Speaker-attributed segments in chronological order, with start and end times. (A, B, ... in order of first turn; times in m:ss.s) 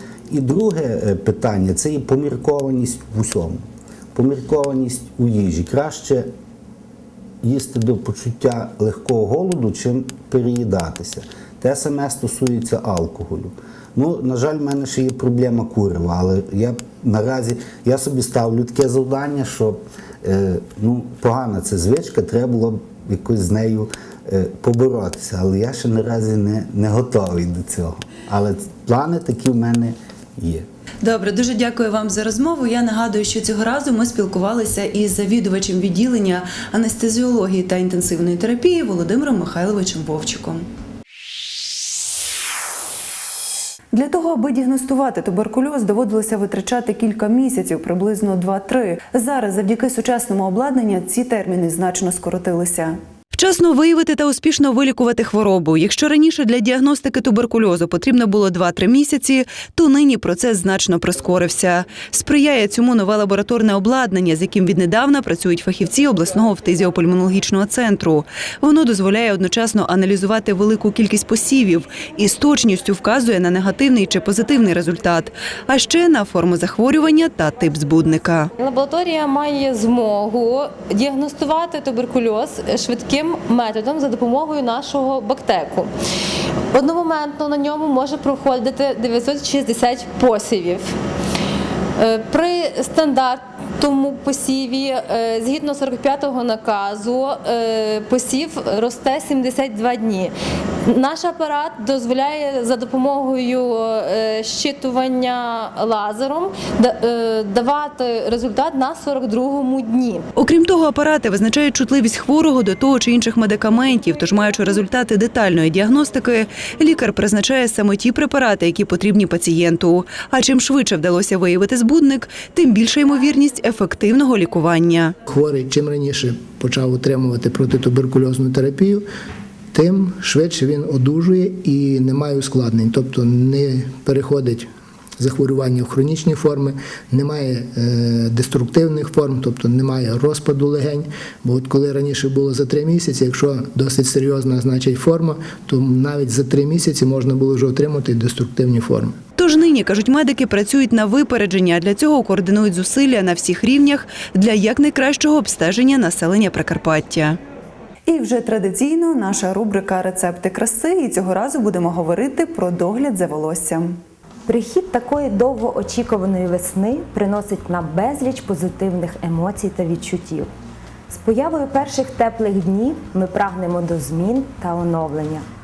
0:00.3-0:06.3 A
0:07.4-0:30.6 A
0:31.0-0:40.7 B
0:43.9-1:18.5 B
1:18.6-1:25.9 C
1:26.7-1:30.9 C
1:32.0-1:40.3 C
1:40.8-1:50.2 C
1:50.4-2:05.1 B
2:05.2-2:09.0 D
2:09.7-2:29.2 D
2:29.4-2:37.4 B
2:38.1-2:44.0 B
2:44.5-2:50.5 E
2:51.1-2:55.4 E